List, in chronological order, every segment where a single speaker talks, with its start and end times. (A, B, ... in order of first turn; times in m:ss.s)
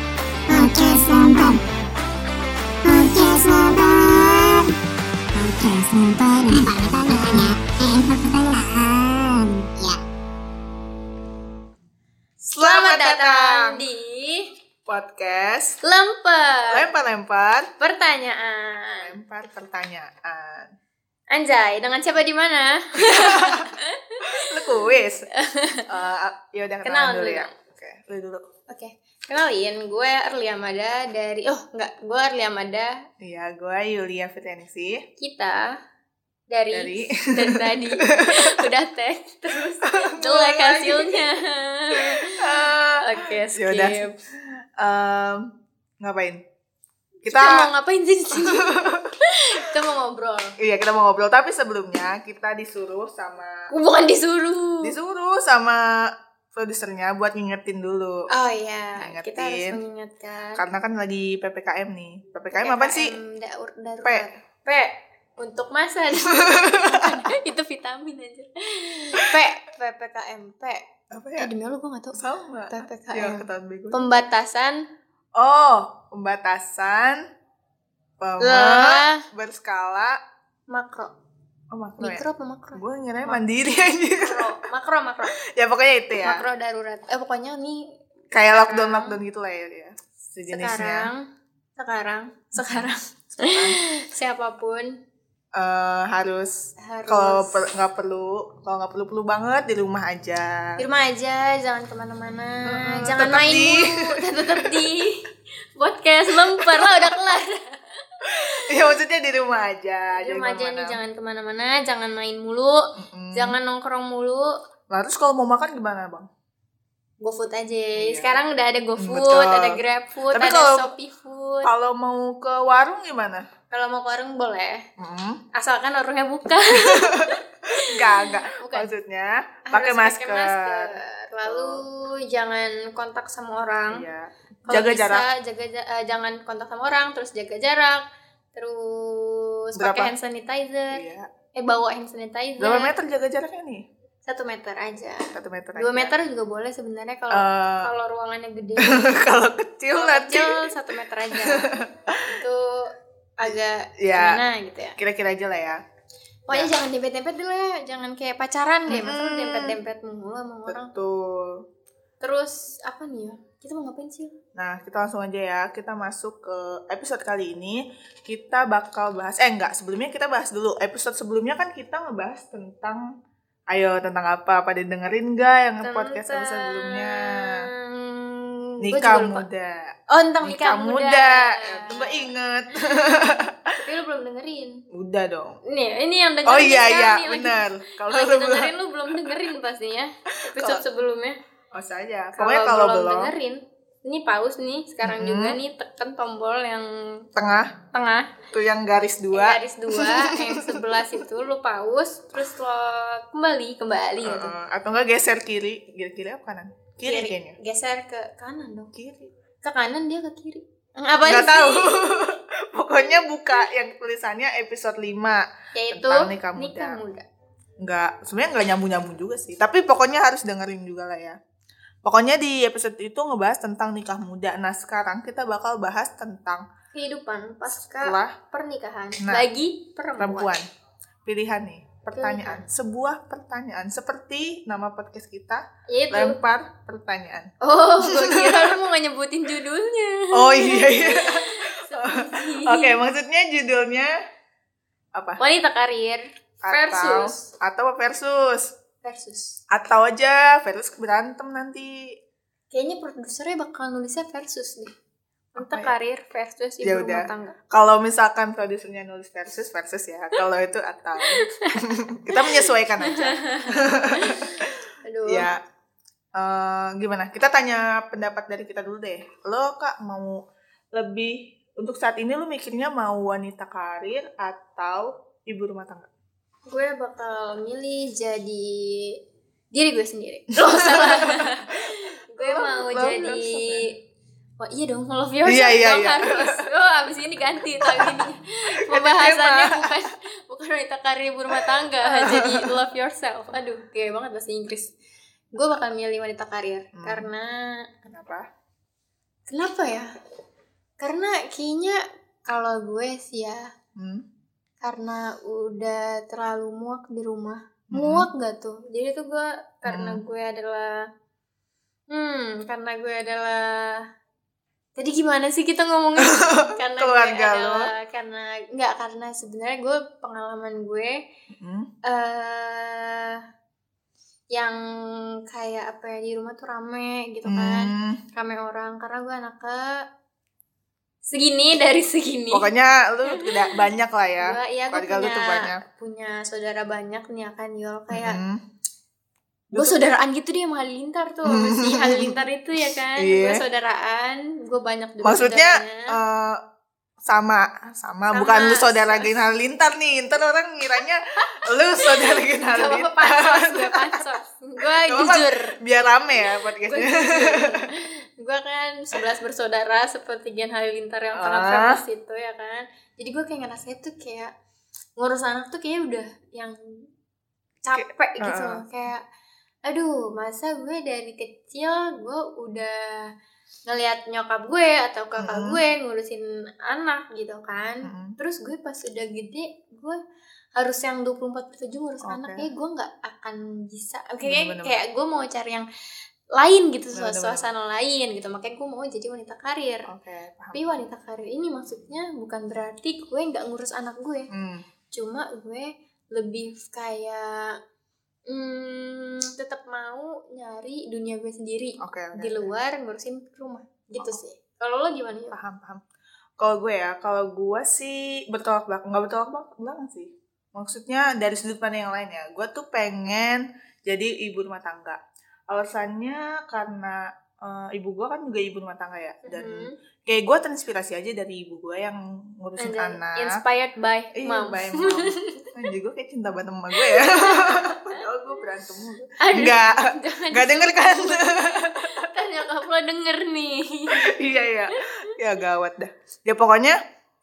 0:00.5-0:01.6 A
0:02.8-0:04.7 A
0:05.3-0:10.0 A
0:12.5-0:13.8 B
0:12.5-0:14.5 C
0:14.9-0:15.8 B
0:15.8-0:16.8 C
0:16.7-0:17.7 B
0:17.8-0:19.1 C
0:19.0-0:20.7 B
0:21.3-0:25.9 C
0:23.0-0:23.7 B
0:24.2-0:25.3 B
0:25.9-0:28.4 B
0:26.8-0:27.5 C
0:28.7-0:33.0 C
0:33.2-0:35.0 B
0:35.2-0:35.8 C
0:36.5-0:44.2 C
0:36.7-0:38.7 B
0:39.8-0:41.3 B
0:42.0-0:46.4 B
0:47.2-0:47.7 B
0:47.3-0:50.6 C
0:48.3-0:49.1 B
0:50.6-0:53.7 B
0:53.7-0:54.9 C
0:54.8-0:58.3 B
0:58.3-1:00.6 C
0:59.0-0:59.8 B
1:00.6-1:03.1 B
1:02.5-1:10.9 C
1:06.3-1:07.1 B
1:11.1-1:11.5 B
1:11.4-1:14.9 C
1:12.1-1:14.1 B
1:15.4-1:17.2 B
1:18.2-1:20.2 B
1:18.4-1:19.3 C
1:20.7-1:21.1 C
1:21.7-1:22.2 B
1:22.0-1:23.4 C
1:22.7-1:24.5 B
1:24.2-1:25.3 C
1:25.4-1:26.4 B
1:26.2-1:29.2 C
1:28.3-1:31.1 B
1:30.5-1:31.3 C
1:31.8-1:35.0 C
1:32.6-1:32.9 B
1:33.5-1:33.8 B
1:35.5-1:40.8 B
1:36.8-1:37.6 C
1:40.8-1:48.8 C
1:42.6-1:44.9 B
1:46.5-1:47.2 B
1:48.2-1:51.0 B
1:50.2-1:52.8 C
1:53.0-1:53.6 B
1:53.3-1:54.6 C
1:54.9-1:56.3 B
1:57.2-2:01.7 C
1:58.0-1:58.4 B
1:59.0-2:00.9 B
2:01.6-2:03.4 B
2:03.7-2:04.9 C
2:05.0-2:05.4 B
2:05.5-2:08.9 C
2:06.8-2:10.9 B
2:09.7-2:14.1 C
2:11.5-2:11.8 B
2:13.9-2:15.3 B
2:14.7-2:18.0 C
2:18.5-2:21.0 C
2:19.8-2:20.1 B
2:20.9-2:21.3 B
2:21.6-2:22.9 C
2:22.6-2:23.9 B
2:24.2-2:29.2 C
2:25.3-2:26.1 B
2:27.3-2:27.9 B
2:28.8-2:30.7 B
2:29.9-2:31.7 C
2:31.3-2:32.4 B
2:32.3-2:35.0 C
2:33.5-2:34.4 B
2:35.0-2:35.8 B
2:36.5-2:40.9 C
2:38.9-2:39.8 B
2:40.7-2:41.6 B
2:42.2-2:44.4 C
2:44.6-2:53.1 B
2:53.7-2:57.7 B
2:55.8-2:59.5 C
2:58.8-3:03.7 B
3:00.1-3:02.3 C
3:03.8-3:04.8 C
3:04.9-3:05.6 B
3:05.6-3:11.4 C
3:06.5-3:09.4 B
3:10.6-3:10.8 B
3:11.7-3:13.3 B
3:12.4-3:17.3 C
3:15.0-3:15.6 B
3:17.4-3:17.8 B
3:17.9-3:18.4 C
3:18.5-3:21.1 B
3:19.3-3:24.5 C
3:24.2-3:27.6 B
3:27.0-3:28.9 C
3:28.9-3:29.3 B
3:29.6-3:32.3 C
3:31.2-3:37.0 B
3:35.7-3:37.2 C
3:37.8-3:41.4 B
3:42.0-3:46.7 B
3:46.9-3:50.5 C
3:47.8-3:48.4 B
3:49.2-3:49.5 B
3:50.2-3:50.7 B
3:51.2-3:57.5 B
3:52.2-3:52.6 C
3:55.9-3:56.4 C
3:57.6-4:03.0 C
3:58.0-3:58.8 B
4:00.3-4:04.1 B
4:05.2-4:05.4 B
4:05.4-4:07.5 C
4:06.6-4:08.8 B
4:09.0-4:09.6 C
4:09.7-4:12.2 B
4:12.7-4:14.9 C
4:15.6-4:17.6 C
4:15.6-4:15.9 B
4:16.8-4:25.6 B
4:21.2-4:21.8 C
4:22.3-4:25.5 C
4:26.4-4:30.4 B
4:31.0-4:36.1 B
4:36.7-4:39.2 C
4:39.7-4:44.0 C
4:40.6-4:43.8 B
4:44.6-4:54.9 C
4:45.4-4:46.6 B
4:47.8-4:48.3 B
4:48.8-4:49.9 B
4:51.5-4:52.8 B
4:55.5-4:57.8 C
4:57.0-4:57.3 B
4:58.0-4:58.5 B
4:59.5-5:00.1 C
5:01.0-5:03.7 C
5:04.0-5:04.2 B
5:04.8-5:11.1 C
5:07.9-5:08.3 B
5:09.9-5:10.2 B
5:12.1-5:14.0 C
5:15.0-5:21.2 C
5:16.2-5:17.9 B
5:21.5-5:21.9 B
5:22.0-5:23.4 C
5:24.5-5:24.8 C
5:25.5-5:30.0 C
5:27.5-5:28.2 B
5:31.3-5:32.7 C
5:32.5-5:35.8 B
5:33.3-5:33.8 C
5:34.4-5:38.4 C
5:38.1-5:38.6 B
5:39.7-5:40.0 B
5:39.7-5:46.2 C
5:41.4-5:42.4 B
5:43.2-5:43.6 B
5:45.2-5:46.6 B
5:47.2-5:54.2 B
5:48.3-5:49.4 C
5:52.0-5:55.8 C
5:54.8-5:57.8 B
5:56.8-6:04.5 C
6:01.4-6:02.0 B
6:05.2-6:07.1 C
6:07.8-6:09.2 C
6:08.0-6:08.8 B
6:09.9-6:13.3 C
6:13.9-6:20.2 C
6:15.4-6:15.8 B
6:18.0-6:18.4 B
6:20.8-6:25.9 C
6:22.2-6:22.7 B
6:24.4-6:25.0 B
6:26.6-6:30.1 C
6:27.1-6:27.7 B
6:30.1-6:30.8 B
6:30.7-6:34.5 C
6:34.5-6:34.8 B
6:35.1-6:37.8 C
6:38.5-6:45.6 C
6:42.0-6:42.8 B
6:45.5-6:46.0 B
6:46.6-7:03.6 B
6:59.5-7:00.0 C
7:02.8-7:05.8 C
7:04.4-7:12.3 B
7:06.9-7:08.2 C
7:09.4-7:14.3 C
7:14.1-7:17.0 B